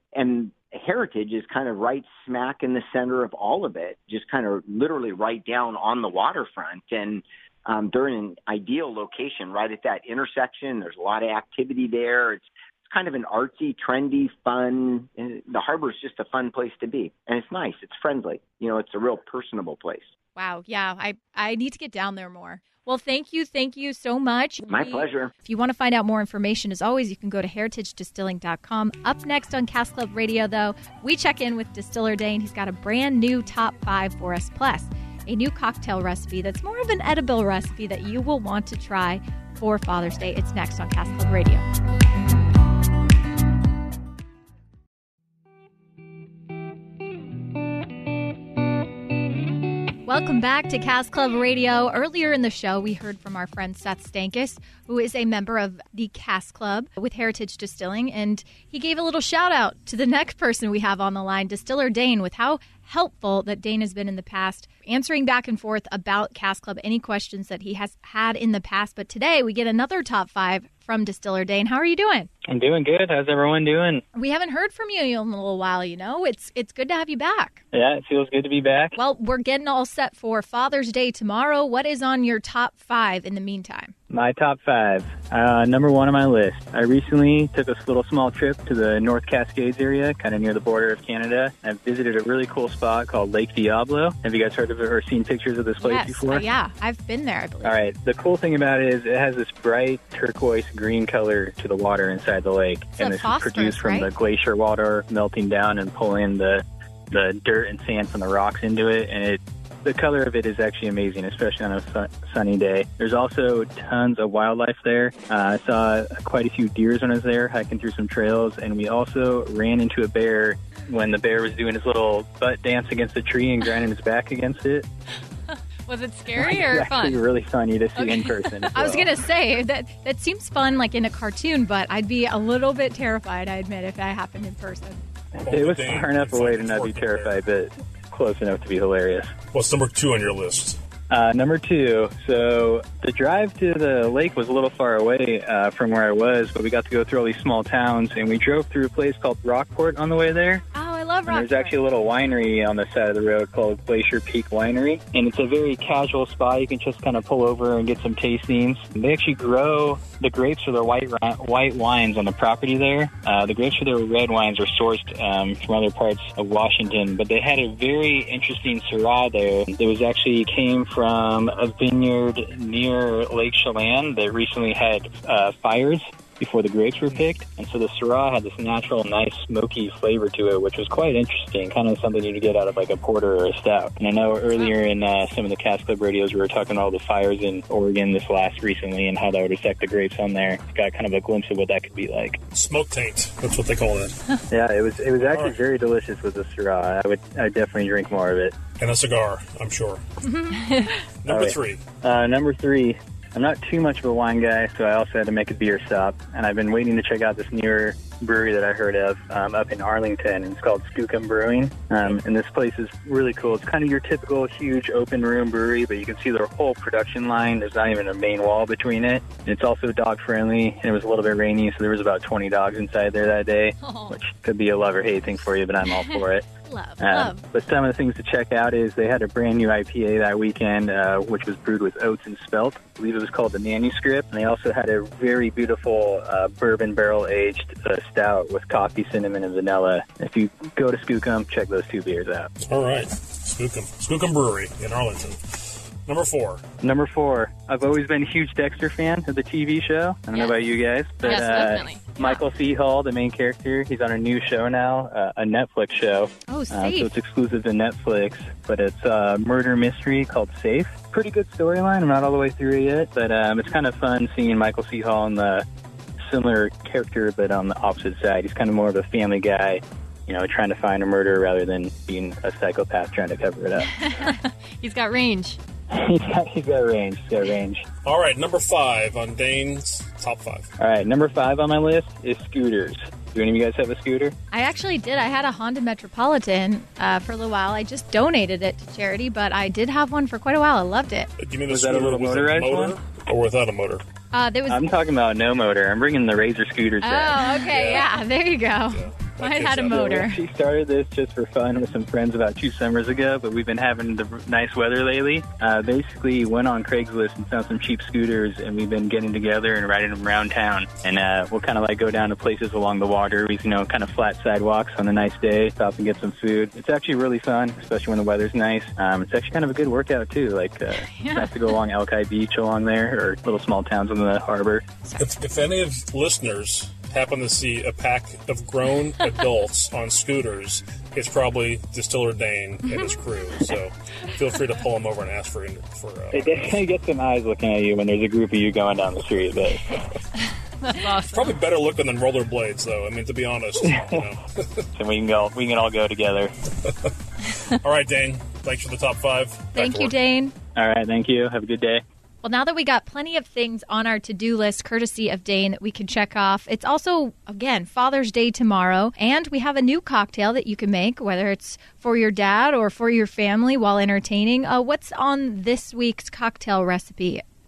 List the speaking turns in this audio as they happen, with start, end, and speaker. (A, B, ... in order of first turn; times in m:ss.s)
0:00.2-0:20.1 A
0:20.4-0:41.6 B
0:24.7-0:25.3 A
0:50.1-1:12.3 B
1:12.5-1:14.0 C
1:14.2-1:17.6 B
1:17.7-1:18.9 C
1:19.0-1:23.9 B
1:24.1-1:36.4 C
1:35.8-1:37.8 B
1:37.6-2:04.9 C
1:43.0-1:44.1 B
2:05.9-2:07.2 D
2:06.4-2:09.1 C
2:08.0-2:08.8 D
2:08.8-2:15.0 B
2:15.4-2:19.3 C
2:15.5-2:17.4 E
2:19.5-2:20.8 E
2:21.1-2:30.6 C
2:30.7-2:31.8 B
2:31.3-3:12.4 C
3:12.5-3:14.2 E
3:14.5-3:18.6 C
3:15.3-3:15.6 E
3:18.8-3:20.0 E
3:20.2-3:20.9 B
3:21.2-3:21.8 E
3:21.3-3:46.4 C
3:43.8-3:44.2 D
3:46.6-3:47.4 B
3:47.0-4:02.5 C
4:02.6-4:06.7 E
4:06.8-4:25.7 C
4:10.3-4:10.6 D
4:11.2-4:12.4 D
4:16.5-4:17.1 B
4:26.2-4:34.0 C
4:34.1-4:35.6 D
4:35.9-4:37.8 C
4:38.0-4:40.7 E
4:40.8-4:44.4 C
4:44.5-4:51.3 B
4:51.4-4:54.0 E
4:51.7-4:52.9 C
4:54.3-4:54.9 B
4:54.7-4:58.0 C
4:57.0-5:00.4 B
4:57.7-4:58.2 E
4:58.9-5:00.1 E
4:59.8-5:24.8 C
5:21.1-5:21.6 B
5:25.2-5:36.8 E
5:36.3-5:40.0 C
5:40.8-5:41.6 D
5:41.3-5:44.9 E
5:43.8-5:44.2 C
5:45.0-5:46.5 C
5:47.7-5:50.2 E
5:49.8-5:50.5 B
5:50.8-5:52.0 C
5:52.4-6:07.4 B